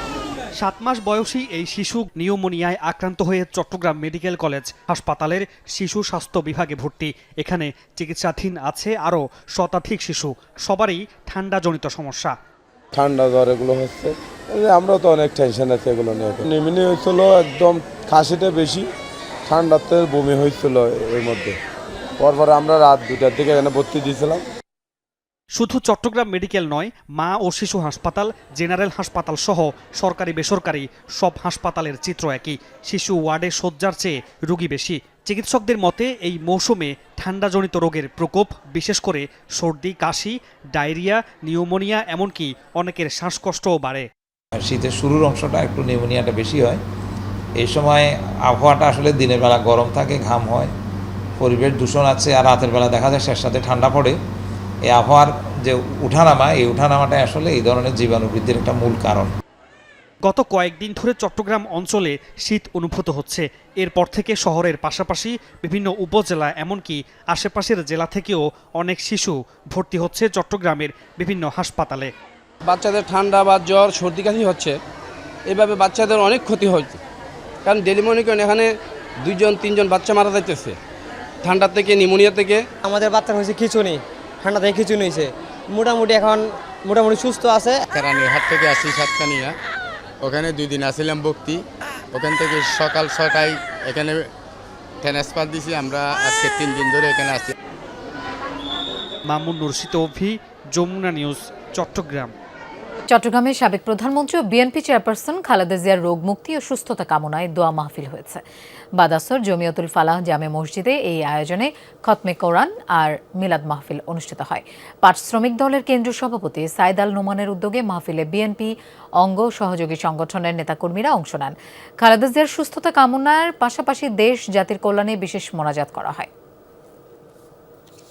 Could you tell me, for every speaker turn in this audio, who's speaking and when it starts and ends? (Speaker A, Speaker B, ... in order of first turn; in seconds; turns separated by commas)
Speaker A: 0.6-12.3, Speaker B: 12.9-18.9, Speaker B: 19.5-21.6, Speaker B: 22.2-24.4, Speaker A: 25.6-44.1, Speaker C: 44.6-46.8, Speaker C: 47.6-50.7, Speaker C: 51.4-54.1, Speaker C: 54.9-59.3, Speaker A: 60.2-72.1, Speaker D: 72.7-74.8, Speaker D: 75.5-77.0, Speaker D: 77.6-78.7, Speaker D: 79.2-80.8, Speaker D: 81.4-82.6, Speaker E: 82.8-87.8, Speaker F: 87.9-89.5, Speaker F: 90.2-91.6, Speaker F: 92.1-94.3, Speaker F: 95.0-97.5, Speaker A: 99.3-102.3, Speaker G: 103.1-108.4, Speaker G: 109.0-126.3